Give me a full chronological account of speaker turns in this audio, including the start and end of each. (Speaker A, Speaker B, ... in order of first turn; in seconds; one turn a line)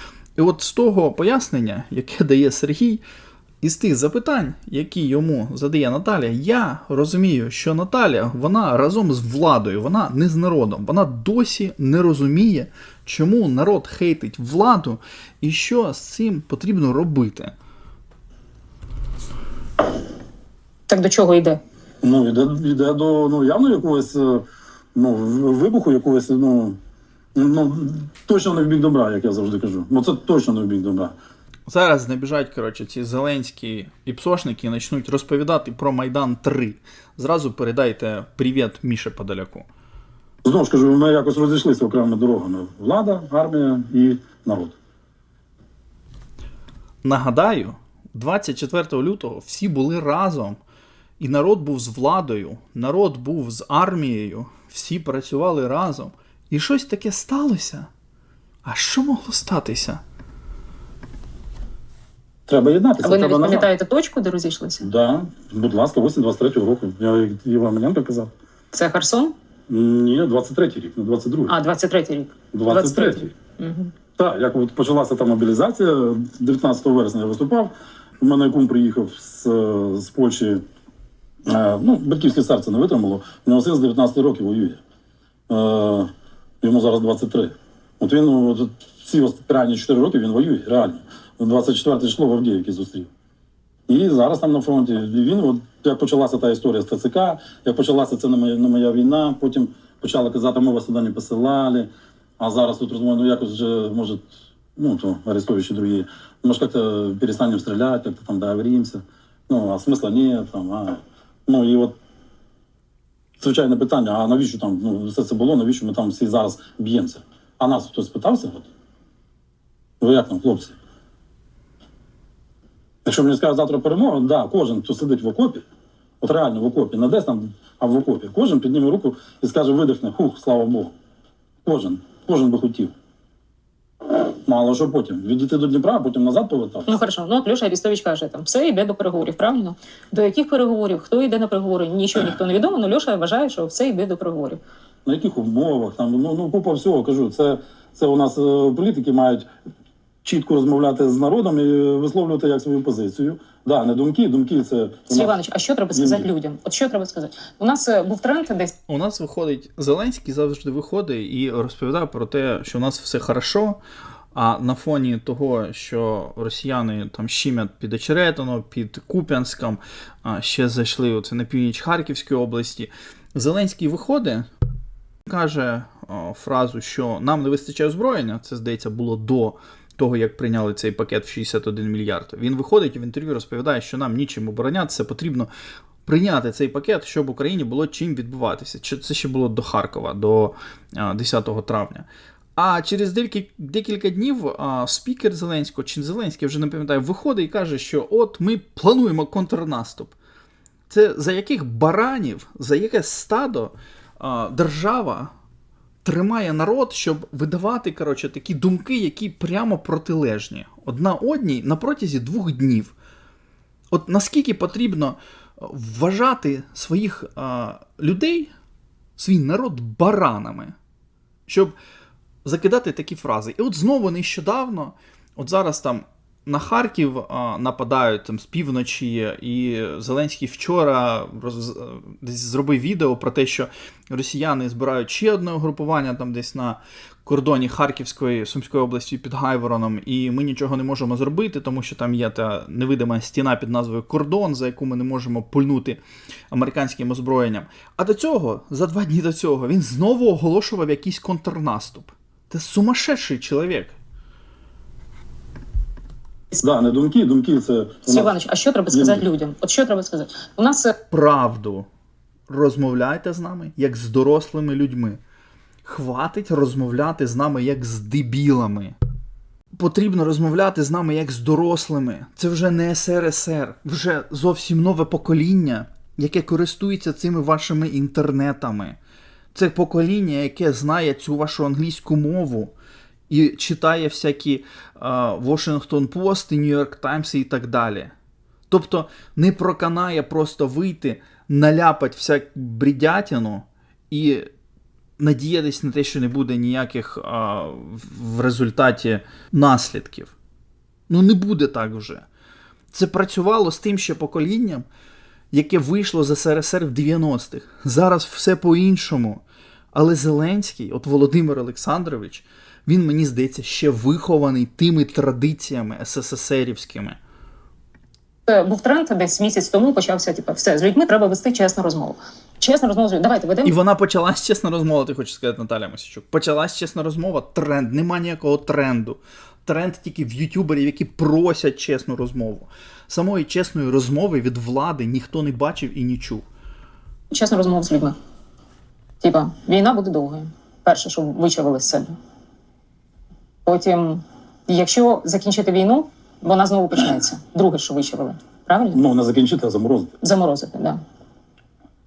Speaker A: 0.4-3.0
Speaker A: 3.6-17.5
Speaker B: 20.9-21.6
Speaker C: 22.0-26.8
Speaker C: 27.3-31.1
Speaker A: 31.7-39.7
Speaker C: 40.4-44.8
Speaker A: 47.0-50.6
Speaker A: 51.2-57.9
Speaker A: 58.6-60.0
Speaker C: 62.5-63.7
Speaker B: 63.0-64.9
Speaker C: 64.8-68.3
Speaker B: 68.7-69.3
Speaker C: 69.7-71.5
Speaker B: 71.5-73.9
Speaker C: 72.5-73.3
Speaker C: 74.2-80.6
Speaker C: 81.5-84.8
Speaker C: 85.5-93.1
Speaker C: 93.9-112.0
Speaker C: 113.4-118.7
Speaker C: 120.0-120.7
Speaker C: 123.0-125.6
Speaker C: 126.2-130.9
Speaker C: 131.6-132.9
Speaker C: 134.4-137.0
Speaker B: 136.9-144.6
Speaker C: 145.1-149.5
Speaker C: 150.2-155.4
Speaker B: 155.1-158.7
Speaker C: 155.9-156.3
Speaker A: 158.9-163.8
Speaker A: 164.3-174.4
Speaker A: 175.2-185.5
Speaker A: 186.1-192.1
Speaker A: 192.6-200.1
Speaker A: 200.9-205.3
Speaker A: 206.1-212.9
Speaker A: 213.9-218.5
Speaker A: 219.2-220.8
Speaker A: 221.5-221.8
Speaker A: 222.4-253.9
Speaker C: 256.6-258.3
Speaker B: 258.1-260.9
Speaker C: 258.9-259.2
Speaker A: 261.1-261.9
Speaker A: 262.5-265.2
Speaker A: 265.8-268.9
Speaker A: 269.7-279.0
Speaker A: 279.5-282.7
Speaker A: 283.3-288.1
Speaker A: 288.7-294.5
Speaker A: 295.2-300.3
Speaker A: 301.1-302.2
Speaker A: 302.9-304.9
Speaker A: 305.5-309.4
Speaker A: 309.9-317.2
Speaker B: 318.5-323.7
Speaker A: 323.6-336.4
Speaker B: 337.3-338.1
Speaker B: 339.2-342.1
Speaker B: 343.6-349.0
Speaker C: 348.9-350.1
Speaker B: 350.2-351.0